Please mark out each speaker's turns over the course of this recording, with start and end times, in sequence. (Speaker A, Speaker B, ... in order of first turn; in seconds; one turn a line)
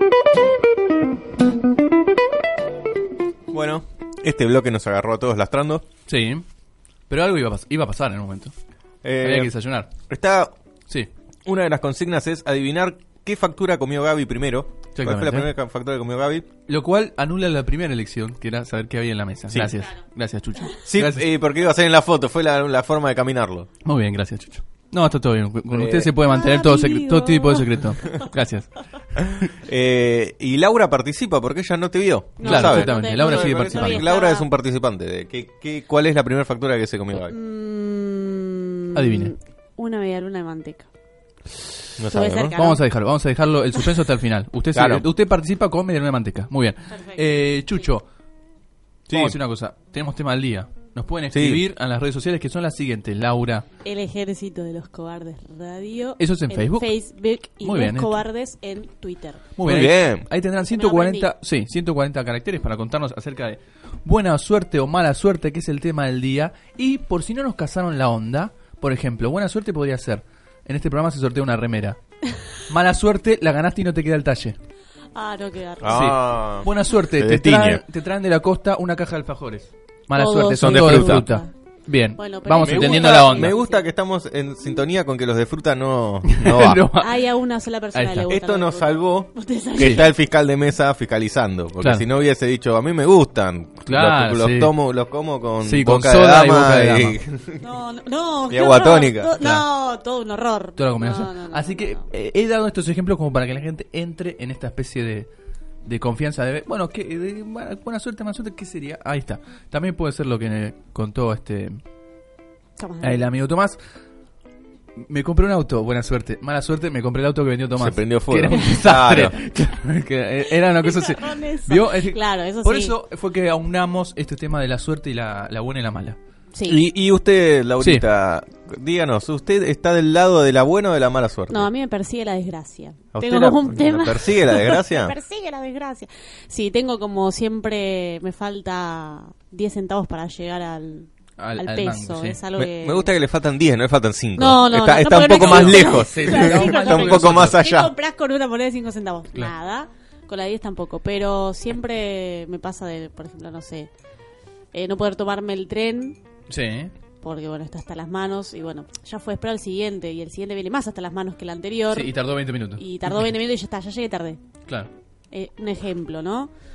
Speaker A: 3.5-5.8
Speaker B: 6.1-6.4
Speaker B: 7.1-8.5
Speaker A: 9.0-9.5
Speaker B: 9.2-9.9
Speaker A: 10.1-10.5
Speaker A: 11.4-16.4
Speaker B: 14.9-15.5
Speaker B: 16.7-21.3
Speaker A: 20.9-23.7
Speaker B: 23.8-28.7
Speaker A: 25.7-26.1
Speaker C: 26.2-27.9
Speaker A: 29.2-37.4
Speaker C: 32.4-34.5
Speaker B: 32.4-34.1
Speaker C: 37.2-40.9
Speaker B: 38.9-39.3
Speaker A: 42.0-42.5
Speaker C: 42.0-42.8
Speaker B: 42.5-48.0
Speaker A: 44.7-45.0
Speaker C: 46.9-47.2
Speaker A: 49.1-49.4
Speaker B: 49.1-53.6
Speaker A: 51.3-51.6
Speaker C: 53.8-59.5
Speaker B: 56.2-56.9
Speaker B: 57.6-58.2
Speaker B: 59.5-72.0
Speaker A: 59.6-60.2
Speaker C: 60.6-61.3
Speaker B: 72.7-74.6
Speaker C: 75.1-76.0
Speaker A: 75.8-77.8
Speaker B: 75.8-83.5
Speaker C: 80.1-81.5
Speaker A: 80.6-81.3
Speaker C: 82.2-83.8
Speaker A: 82.6-86.9
Speaker B: 86.2-87.2
Speaker C: 86.9-90.1
Speaker B: 87.9-88.3
Speaker A: 88.3-97.7
Speaker B: 89.8-90.0
Speaker B: 91.8-92.0
Speaker B: 93.8-94.7
Speaker B: 95.6-97.2
Speaker C: 97.6-102.0
Speaker A: 98.5-99.3
Speaker B: 99.4-99.6
Speaker B: 100.8-105.3
Speaker B: 105.8-111.8
Speaker C: 112.8-113.3
Speaker B: 113.0-113.8
Speaker B: 115.0-126.2
Speaker A: 117.7-119.3
Speaker C: 120.8-122.9
Speaker C: 126.5-126.8
Speaker A: 126.7-131.7
Speaker B: 127.8-128.1
Speaker C: 131.5-143.2
Speaker A: 133.1-135.1
Speaker B: 141.4-142.4
Speaker A: 142.6-147.9
Speaker C: 144.3-153.9
Speaker B: 145.3-147.6
Speaker C: 154.7-156.2
Speaker B: 156.5-156.9
Speaker C: 157.2-164.4
Speaker B: 161.9-163.3
Speaker B: 164.7-164.9
Speaker C: 165.3-166.5